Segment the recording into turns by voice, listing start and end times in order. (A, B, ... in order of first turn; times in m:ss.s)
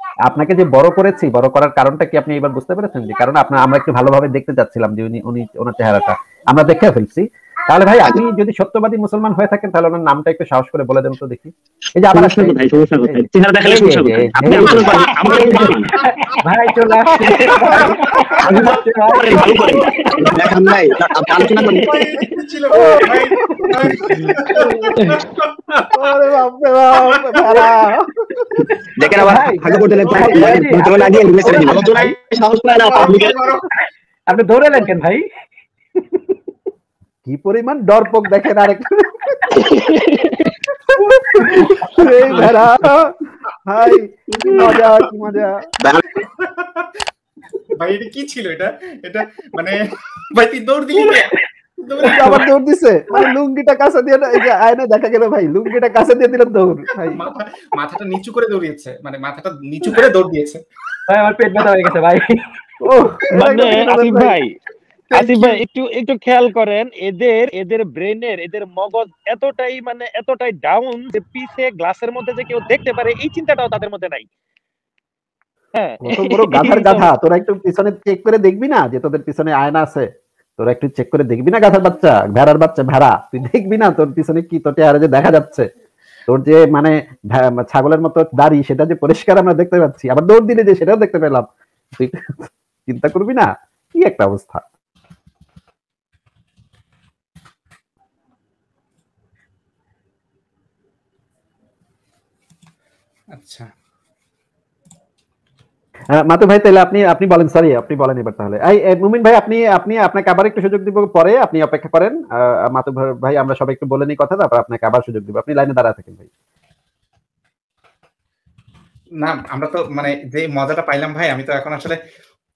0:00.2-0:15.8 A
0:12.1-0:16.0 B
0:13.7-0:19.9 C
0:16.0-0:16.3 D
0:17.3-0:18.3 A
0:17.6-0:18.8 D
0:18.4-0:19.6 B
0:19.1-0:20.4 A
0:20.2-0:22.1 B
0:21.4-0:25.9 D
0:22.7-0:25.1 A
0:25.9-0:32.0 A
0:27.0-0:27.6 D
0:29.0-0:33.4 B
0:29.2-0:31.1 C
0:31.4-0:32.0 D
0:32.9-0:33.6 D
0:33.0-0:33.3 A
0:34.3-0:35.2 C
0:37.2-0:39.4 A
0:39.5-0:40.0 B
0:41.1-0:45.6 A
0:46.2-0:46.9 D
0:47.7-0:49.8 D
0:50.3-0:52.5 D
0:52.0-0:57.2 A
0:57.1-1:00.6 D
1:01.1-1:02.4 C
1:02.8-1:04.4 A
1:03.3-1:04.5 E
1:05.1-1:14.3 E
1:15.7-1:17.1 E
1:16.0-1:25.7 A
1:26.3-1:34.6 A
1:43.3-1:43.7 D
1:46.2-1:56.3 A
1:59.2-2:02.0 D